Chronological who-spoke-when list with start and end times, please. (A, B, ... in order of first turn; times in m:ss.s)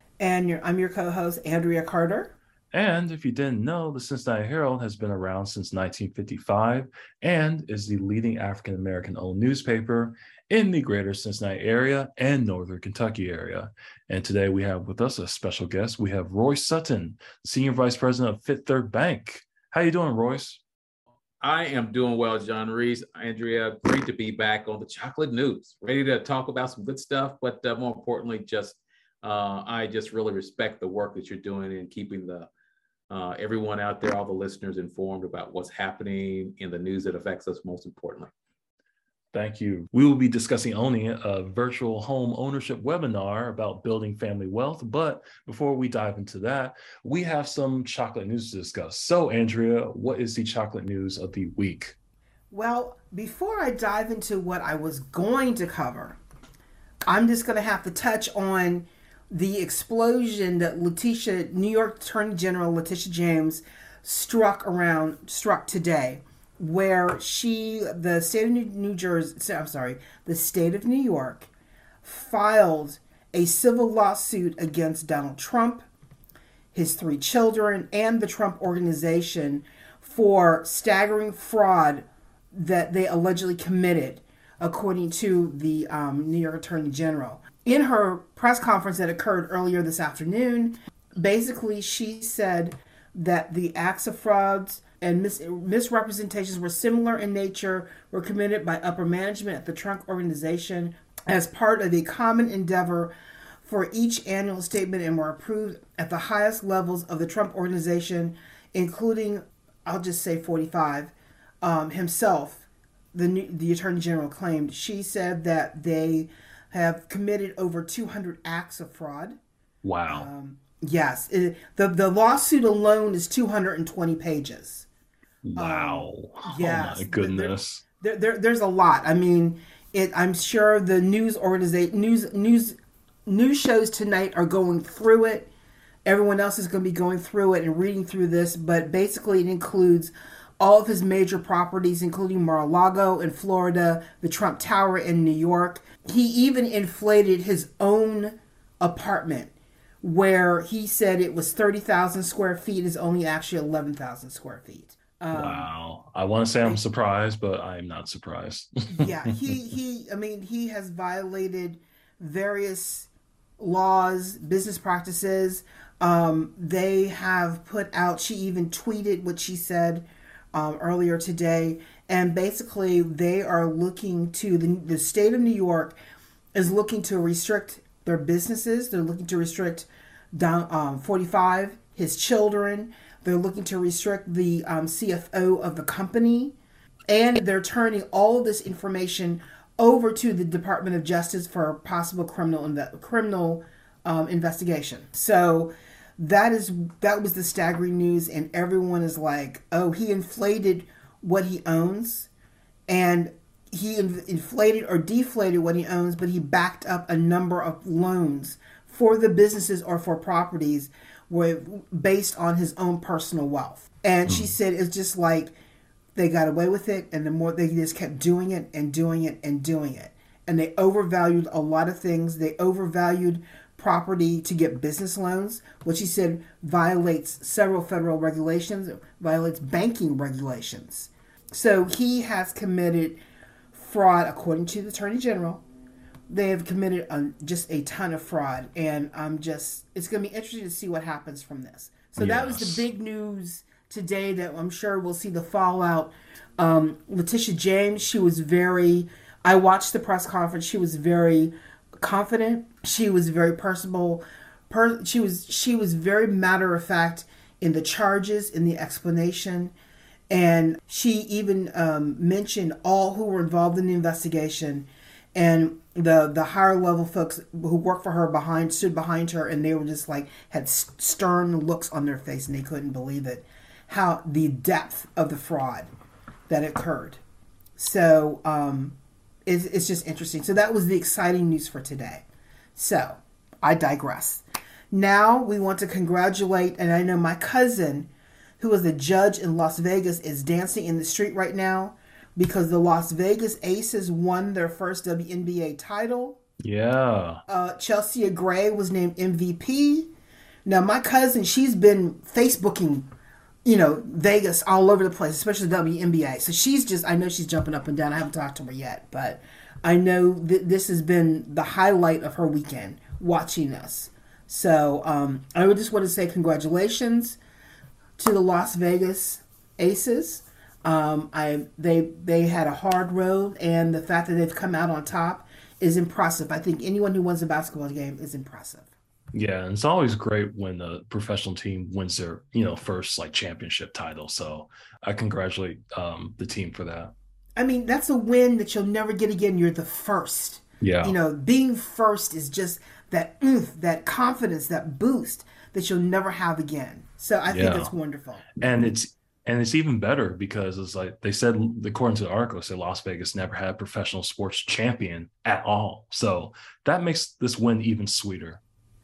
0:00.2-0:02.3 A
0:02.7-0:20.6 B
0:21.4-0:32.5 C
0:33.1-0:38.3 C
0:39.3-0:52.0 B
0:52.5-0:56.2 A
0:57.1-1:11.5 A
1:12.0-1:15.8 A
1:16.7-1:59.4 A
1:59.8-2:00.3 B
2:00.1-2:04.8 A
2:05.4-2:07.8 B
2:05.6-2:15.5 A
2:16.0-2:35.7 A
2:35.3-2:39.5 B
2:38.9-2:56.0 A
2:56.5-3:06.5 A
3:07.1-3:22.3 A
3:22.9-3:35.5 A
3:34.2-3:34.5 B
3:36.2-3:53.2 A
3:53.7-3:55.6 A
3:56.3-4:19.7 A
4:02.2-4:02.8 B
4:20.3-4:35.9 A
4:36.5-4:37.2 A
4:37.8-4:38.9 A
4:39.4-4:42.2 A
4:42.8-4:56.4 A
4:56.6-4:57.4 B
4:57.5-5:00.1 A
5:00.6-5:03.0 A
5:03.6-5:17.4 A
5:18.2-5:28.9 A
5:29.3-5:37.1 B
5:37.6-5:48.5 A
5:40.8-5:41.1 B
5:47.5-5:47.9 B
5:48.6-5:58.6 B